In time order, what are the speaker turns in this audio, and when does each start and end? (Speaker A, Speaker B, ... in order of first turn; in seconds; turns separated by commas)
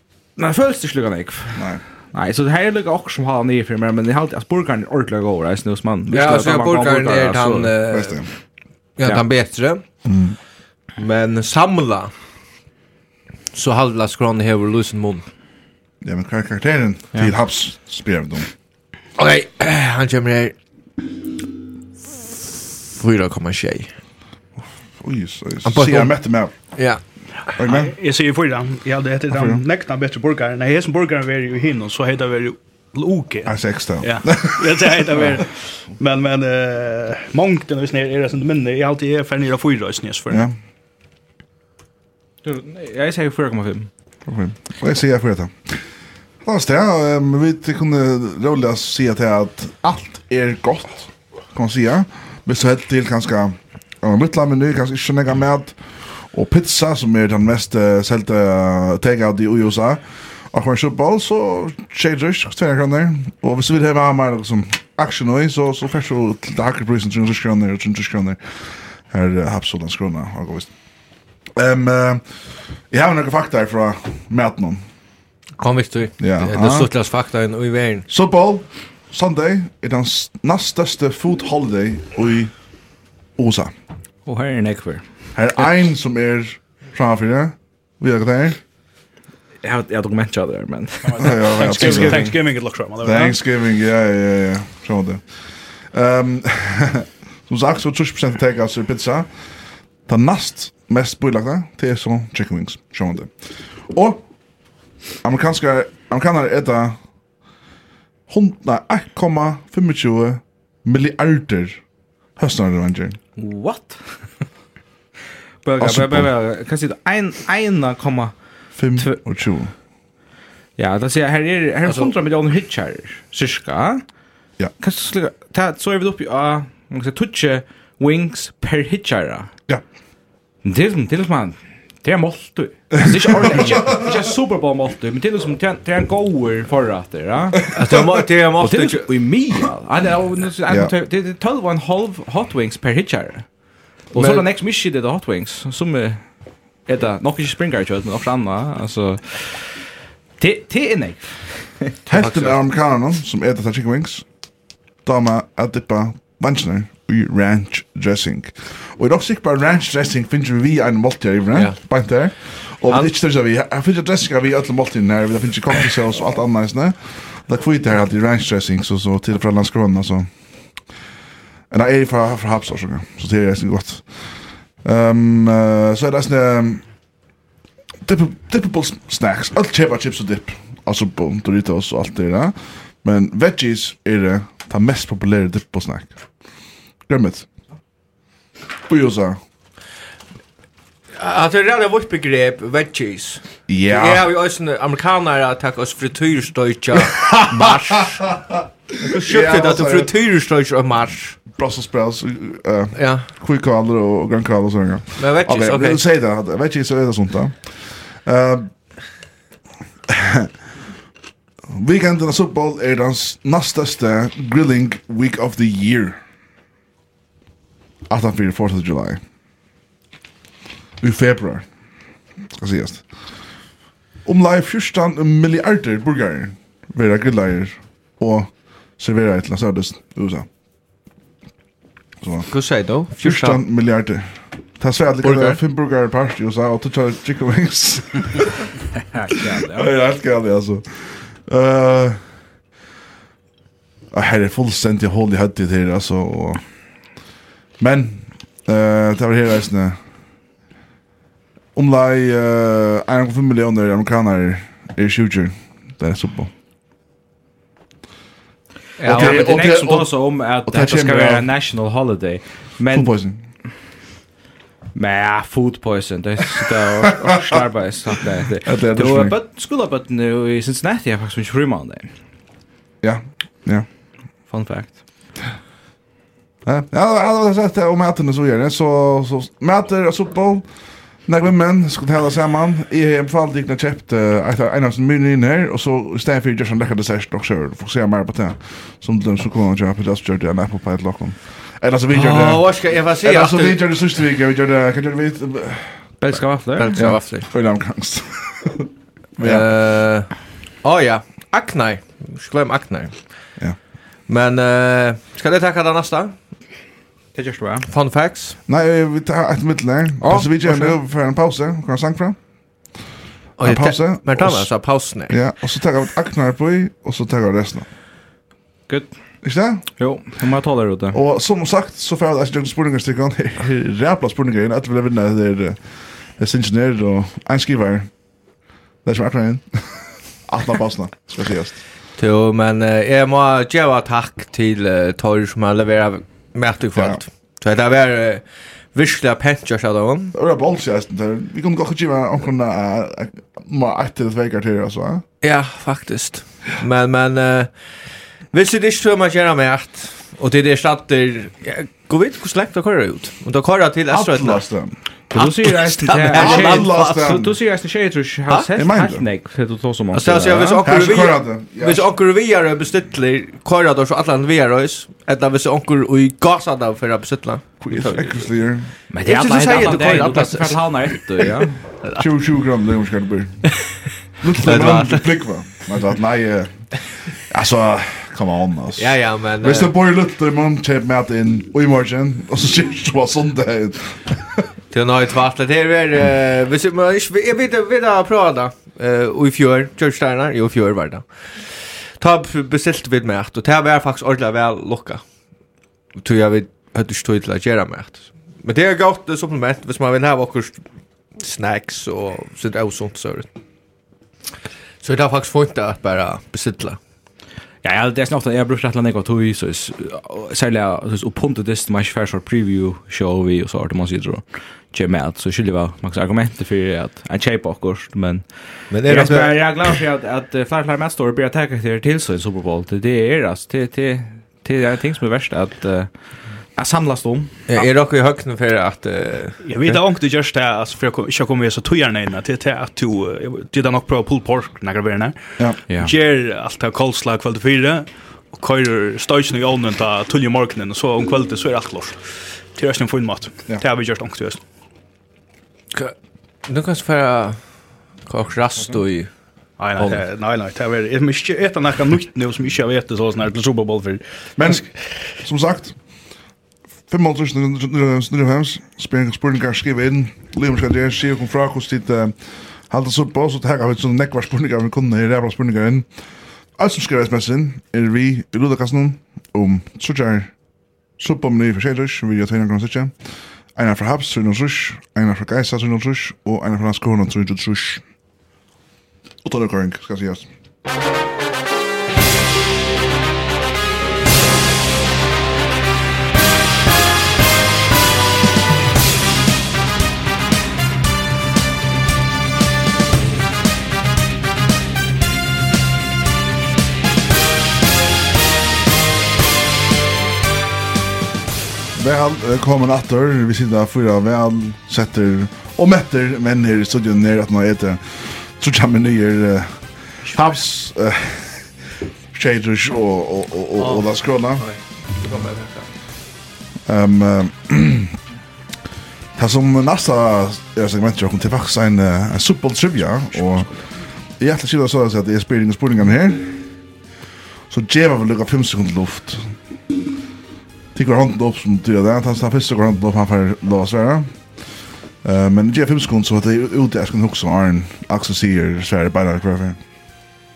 Speaker A: 0.4-7.7, Speaker B: 1.6-1.8, Speaker C: 6.1-8.3, Speaker B: 7.9-8.3, Speaker C: 9.0-9.8, Speaker B: 10.1-10.4, Speaker C: 11.0-12.1, Speaker C: 13.5-15.3, Speaker B: 16.0-18.5, Speaker C: 19.2-20.5, Speaker C: 22.9-23.9, Speaker B: 24.9-27.0, Speaker C: 25.6-27.2, Speaker B: 27.6-27.9, Speaker D: 27.6-40.5, Speaker B: 29.3-29.6, Speaker B: 33.5-35.3, Speaker B: 40.3-40.6, Speaker A: 42.4-43.9, Speaker B: 44.3-70.7, Speaker B: 71.5-74.9, Speaker C: 75.6-78.1, Speaker B: 76.2-76.9, Speaker B: 78.1-82.5, Speaker B: 83.4-83.7, Speaker A: 84.3-85.1, Speaker B: 85.3-88.6, Speaker A: 89.6-92.3, Speaker D: 91.1-93.4, Speaker B: 91.2-92.3, Speaker B: 93.0-99.5, Speaker B: 100.1-104.2, Speaker B: 105.2-107.0, Speaker B: 108.3-111.8, Speaker B: 112.4-113.2, Speaker A: 113.4-114.3, Speaker A: 115.6-118.3, Speaker B: 115.8-116.3, Speaker B: 118.8-119.7, Speaker A: 119.0-119.2, Speaker A: 120.8-124.0, Speaker A: 124.8-129.5, Speaker A: 130.6-137.7, Speaker B: 133.1-134.2, Speaker C: 137.7-139.1, Speaker A: 138.6-143.5, Speaker B: 140.7-140.9, Speaker A: 144.1-149.9, Speaker C: 144.1-144.4, Speaker A: 150.4-151.9, Speaker B: 152.1-154.3, Speaker C: 152.1-152.6, Speaker B: 155.0-170.9, Speaker C: 161.5-163.1, Speaker B: 171.7-176.9, Speaker B: 178.0-186.5, Speaker B: 187.1-187.5, Speaker B: 188.9-189.4, Speaker C: 191.2-198.4, Speaker B: 193.7-194.3, Speaker B: 197.2-200.1, Speaker C: 199.0-201.4, Speaker B: 201.5-209.1, Speaker C: 203.0-203.3, Speaker C: 205.2-206.0, Speaker B: 210.1-210.5, Speaker B: 211.7-216.2, Speaker B: 218.1-219.2, Speaker B: 221.0-221.9, Speaker B: 222.5-223.6, Speaker B: 224.2-230.5, Speaker B: 232.2-232.5, Speaker C: 232.5-233.6, Speaker B: 233.2-238.7, Speaker C: 235.2-235.6, Speaker A: 239.2-239.9, Speaker B: 239.5-242.2, Speaker B: 244.1-247.2, Speaker B: 247.8-250.0, Speaker B: 251.8-256.5, Speaker C: 259.0-259.6, Speaker B: 259.1-261.5, Speaker A: 259.1-263.1, Speaker B: 262.9-263.4, Speaker A: 264.9-272.1, Speaker B: 268.6-269.4, Speaker B: 273.0-273.9, Speaker A: 274.5-275.0, Speaker B: 276.6-296.4, Speaker C: 292.1-294.0, Speaker A: 296.2-297.0, Speaker C: 296.8-297.5, Speaker B: 296.9-299.8, Speaker C: 299.4-303.5, Speaker C: 304.3-306.4, Speaker A: 307.3-307.9, Speaker C: 307.9-308.6, Speaker B: 308.7-312.4, Speaker A: 310.2-311.0, Speaker C: 313.6-315.5, Speaker B: 313.6-317.9, Speaker A: 318.9-321.2, Speaker B: 319.4-319.9, Speaker B: 321.1-328.5, Speaker B: 329.0-331.8, Speaker C: 332.2-340.3, Speaker B: 336.9-337.2, Speaker B: 340.3-345.2, Speaker C: 345.4-354.7, Speaker B: 354.1-355.0, Speaker A: 355.3-360.8, Speaker C: 355.3-357.1, Speaker B: 356.3-357.6, Speaker B: 358.8-359.2, Speaker C: 360.1-371.4, Speaker B: 360.8-362.1, Speaker B: 367.8-368.9, Speaker A: 369.1-371.8, Speaker B: 372.1-384.7, Speaker C: 374.6-375.8, Speaker C: 379.0-379.9, Speaker C: 384.9-395.2, Speaker C: 396.2-403.5, Speaker C: 405.0-407.0, Speaker A: 407.8-427.6, Speaker C: 418.9-420.0, Speaker C: 427.7-429.6, Speaker D: 429.6-444.6, Speaker C: 445.9-449.3, Speaker D: 449.8-455.4, Speaker B: 454.6-456.1, Speaker B: 457.1-470.6, Speaker B: 471.2-473.2, Speaker B: 473.8-478.0, Speaker B: 479.4-480.5, Speaker B: 501.9-514.7, Speaker D: 510.2-510.6, Speaker B: 516.9-518.2, Speaker B: 519.4-526.8, Speaker B: 527.7-529.6, Speaker B: 530.9-539.8